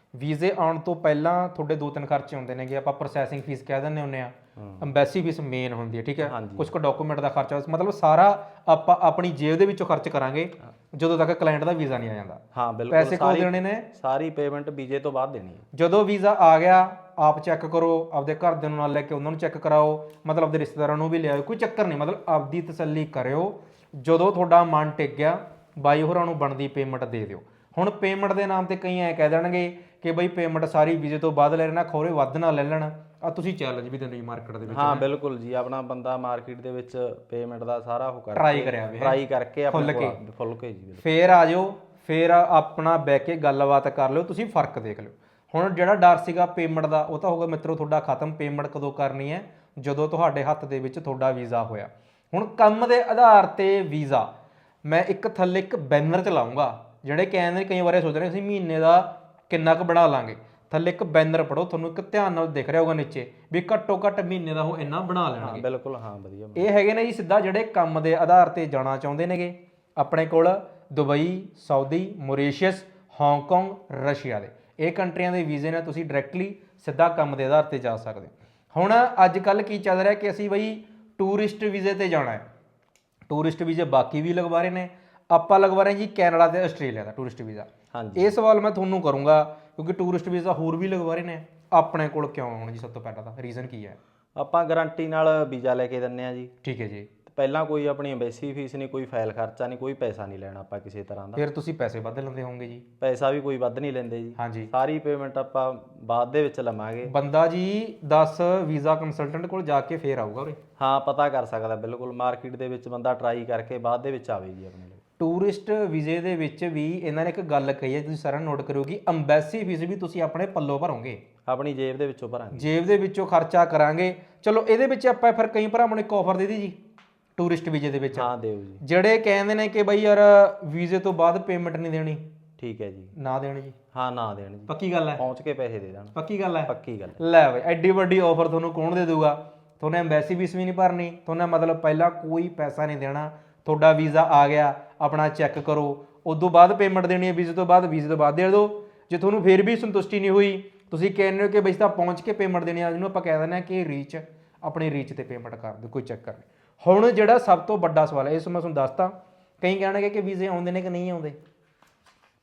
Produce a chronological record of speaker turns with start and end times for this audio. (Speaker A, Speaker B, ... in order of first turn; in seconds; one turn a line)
Speaker A: 0.1-13.9
Speaker B: 4.6-4.8
Speaker B: 6.2-6.7
Speaker B: 12.5-15.7
Speaker A: 15.7-35.0
Speaker B: 34.7-41.0
Speaker A: 38.3-39.2
Speaker A: 39.7-40.2
Speaker A: 41.0-54.3
Speaker A: 54.9-65.7
Speaker B: 65.4-66.7
Speaker A: 66.6-82.4
Speaker A: 83.3-94.0
Speaker B: 87.9-88.4
Speaker B: 94.4-96.5
Speaker A: 96.6-97.1
Speaker B: 97.3-101.4
Speaker A: 101.4-102.8
Speaker B: 103.0-107.1
Speaker A: 104.4-104.7
Speaker A: 107.1-110.6
Speaker B: 110.8-115.0
Speaker A: 115.2-121.2
Speaker B: 121.5-122.7
Speaker A: 122.5-126.8
Speaker A: 127.4-128.3
Speaker B: 128.1-128.8
Speaker A: 128.8-132.2
Speaker B: 132.6-133.1
Speaker A: 133.2-133.8
Speaker B: 133.9-136.2
Speaker A: 134.7-135.2
Speaker A: 136.1-161.4
Speaker B: 136.7-137.2